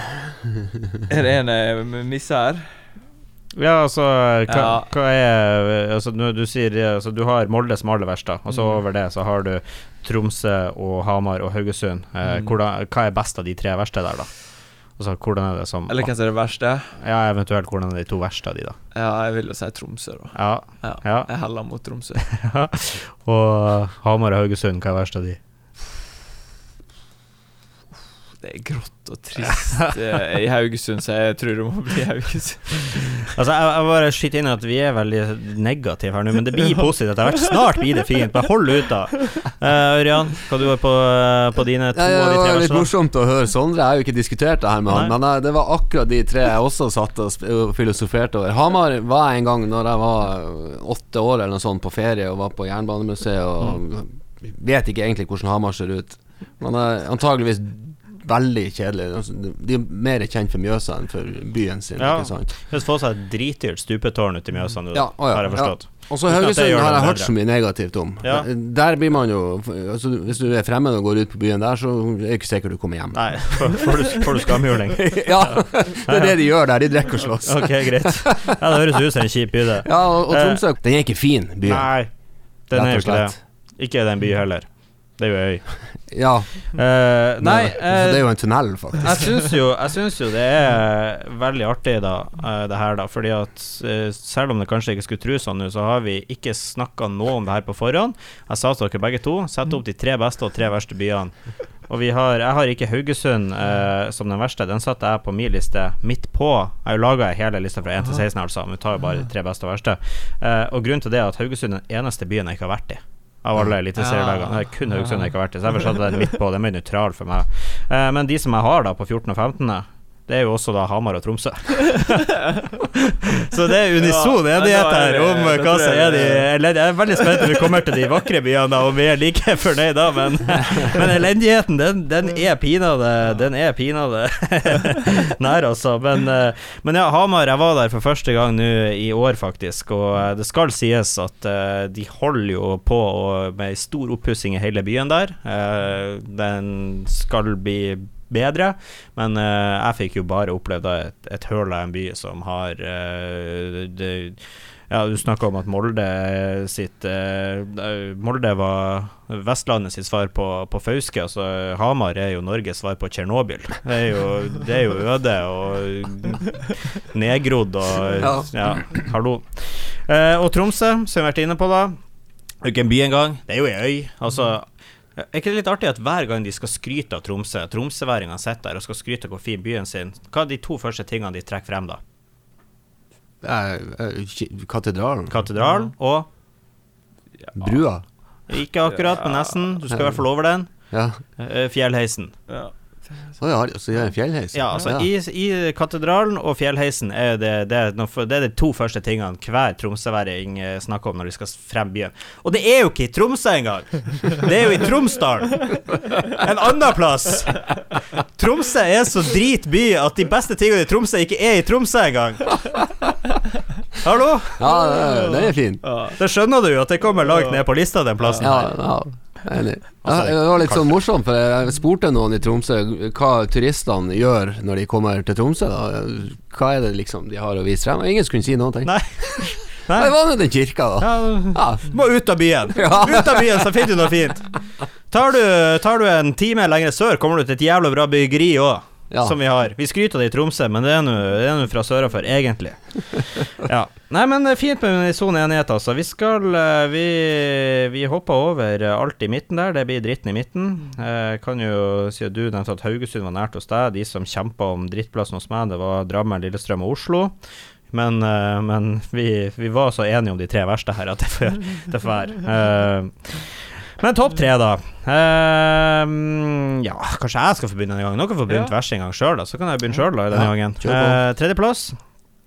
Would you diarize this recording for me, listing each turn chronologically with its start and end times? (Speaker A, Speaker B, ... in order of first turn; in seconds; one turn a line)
Speaker A: 1.1-2.9
Speaker B: 3.5-16.2
Speaker A: 4.5-4.9
Speaker A: 8.5-8.8
Speaker A: 12.2-12.5
Speaker A: 15.9-16.9
Speaker B: 16.9-18.8
Speaker A: 18.9-22.2
Speaker B: 20.3-21.3
Speaker B: 22.2-25.4
Speaker A: 28.4-33.2
Speaker B: 33.3-42.9
Speaker C: 41.9-62.5
Speaker B: 44.9-45.1
Speaker B: 62.0-68.5
Speaker C: 64.9-73.9
Speaker B: 73.1-76.6
Speaker C: 75.0-78.4
Speaker B: 77.4-80.6
Speaker C: 79.8-83.4
Speaker B: 81.6-172.0
Speaker C: 86.1-89.4
Speaker A: 114.0-115.3
Speaker A: 124.0-126.5
Speaker C: 168.2-169.0
Speaker B: 172.6-174.6
Speaker B: 175.2-182.0
Speaker C: 183.4-185.4
Speaker B: 185.3-186.3
Speaker A: 185.6-185.9
Speaker A: 187.4-187.7
Speaker C: 187.6-188.0
Speaker B: 188.5-192.3
Speaker A: 188.9-189.8
Speaker C: 189.9-190.2
Speaker C: 190.9-191.2
Speaker A: 192.5-193.4
Speaker C: 193.4-195.1
Speaker B: 194.5-207.8
Speaker B: 208.3-212.8
Speaker B: 214.0-215.4
Speaker C: 214.6-215.8
Speaker A: 215.8-216.2
Speaker B: 216.2-218.9
Speaker A: 217.3-217.6
Speaker A: 218.2-218.5
Speaker C: 218.4-231.9
Speaker B: 220.0-221.0
Speaker B: 228.8-230.2
Speaker B: 230.9-257.4
Speaker C: 232.7-233.7
Speaker C: 239.1-239.3
Speaker B: 257.9-272.0
Speaker A: 268.5-268.7
Speaker C: 270.3-271.2